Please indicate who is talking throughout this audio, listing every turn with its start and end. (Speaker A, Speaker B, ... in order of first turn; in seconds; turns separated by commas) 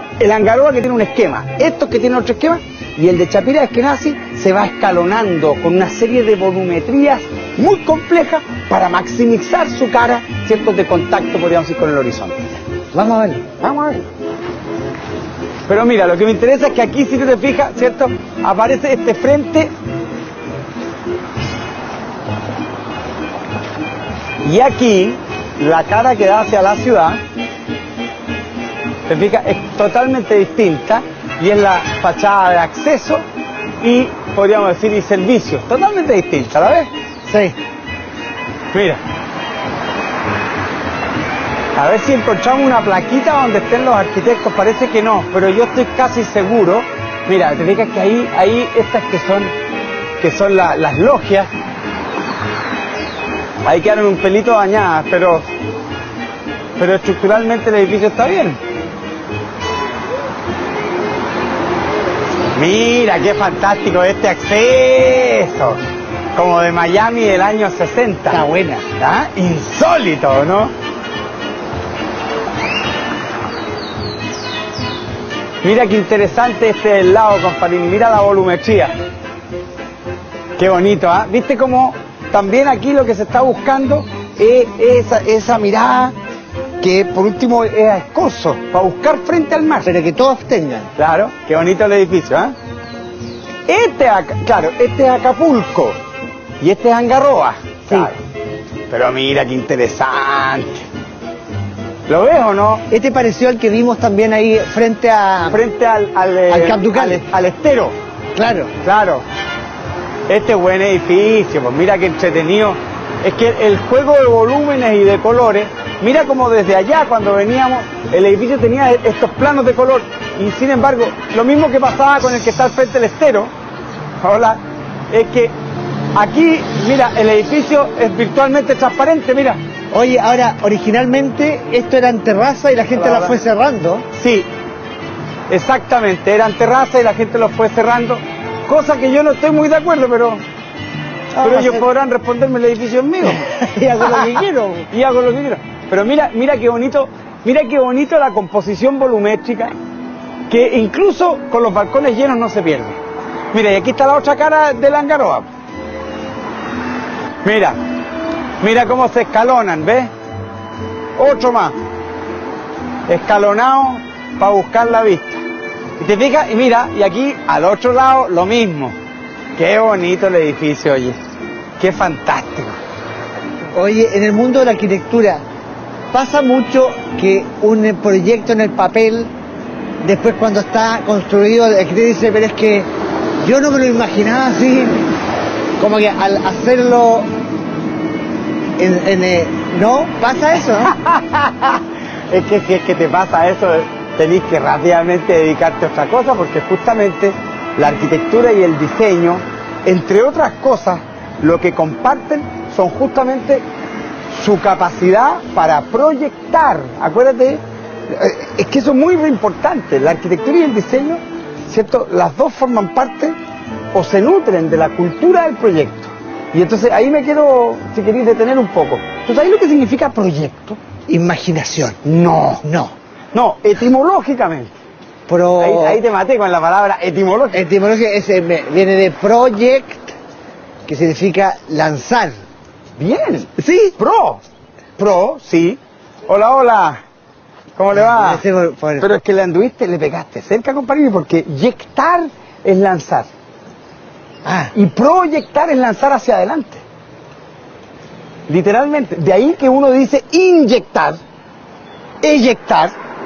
Speaker A: 0.2-12.5, Speaker B: 12.9-13.4, Speaker A: 13.6-14.0, Speaker A: 15.7-19.7, Speaker A: 24.4-27.2, Speaker A: 29.1-33.2, Speaker A: 33.8-36.9, Speaker B: 37.3-37.5, Speaker A: 38.7-39.0, Speaker A: 41.8-49.5, Speaker A: 50.2-51.5, Speaker A: 53.6-55.5, Speaker A: 56.8-58.6, Speaker A: 62.5-65.8, Speaker A: 66.3-68.4, Speaker B: 68.3-68.8, Speaker A: 69.0-70.7, Speaker A: 75.6-78.9, Speaker A: 80.5-86.2, Speaker A: 86.8-89.9, Speaker B: 89.8-90.9, Speaker A: 91.0-92.5, Speaker A: 93.7-96.0, Speaker A: 96.6-98.2, Speaker A: 98.9-100.9, Speaker A: 102.1-102.8, Speaker B: 102.9-105.6, Speaker A: 105.5-108.0, Speaker B: 106.5-107.2, Speaker B: 108.3-108.7, Speaker A: 108.8-109.2, Speaker A: 110.3-123.5, Speaker A: 124.2-125.5, Speaker A: 126.1-129.6, Speaker B: 129.9-134.1, Speaker A: 132.9-133.4, Speaker A: 134.1-134.5, Speaker A: 135.5-140.4, Speaker B: 141.3-141.8, Speaker A: 141.4-143.4, Speaker B: 143.2-144.9, Speaker A: 144.9-149.7, Speaker A: 150.5-153.0, Speaker A: 153.5-155.5, Speaker A: 157.4-157.8, Speaker A: 158.6-160.1, Speaker A: 161.2-161.8, Speaker A: 163.1-165.4, Speaker A: 166.0-168.9, Speaker A: 169.6-171.2, Speaker A: 171.8-172.8, Speaker B: 173.7-175.4, Speaker B: 176.1-179.3, Speaker B: 180.0-182.9, Speaker B: 183.4-185.0, Speaker B: 185.8-187.3, Speaker B: 188.8-190.9, Speaker A: 190.8-203.7, Speaker A: 204.3-213.3, Speaker A: 213.9-220.8, Speaker B: 221.1-222.0, Speaker A: 222.0-222.6, Speaker B: 222.6-222.9, Speaker A: 223.3-224.7, Speaker B: 225.3-226.0, Speaker A: 225.6-227.7, Speaker B: 227.5-230.1, Speaker B: 230.8-232.3, Speaker A: 233.0-234.4, Speaker B: 233.6-233.9, Speaker A: 235.0-237.0, Speaker A: 237.8-238.4, Speaker B: 237.9-239.1, Speaker A: 239.0-243.3, Speaker B: 244.4-244.7, Speaker A: 244.7-246.8, Speaker A: 248.5-251.2, Speaker A: 252.2-252.9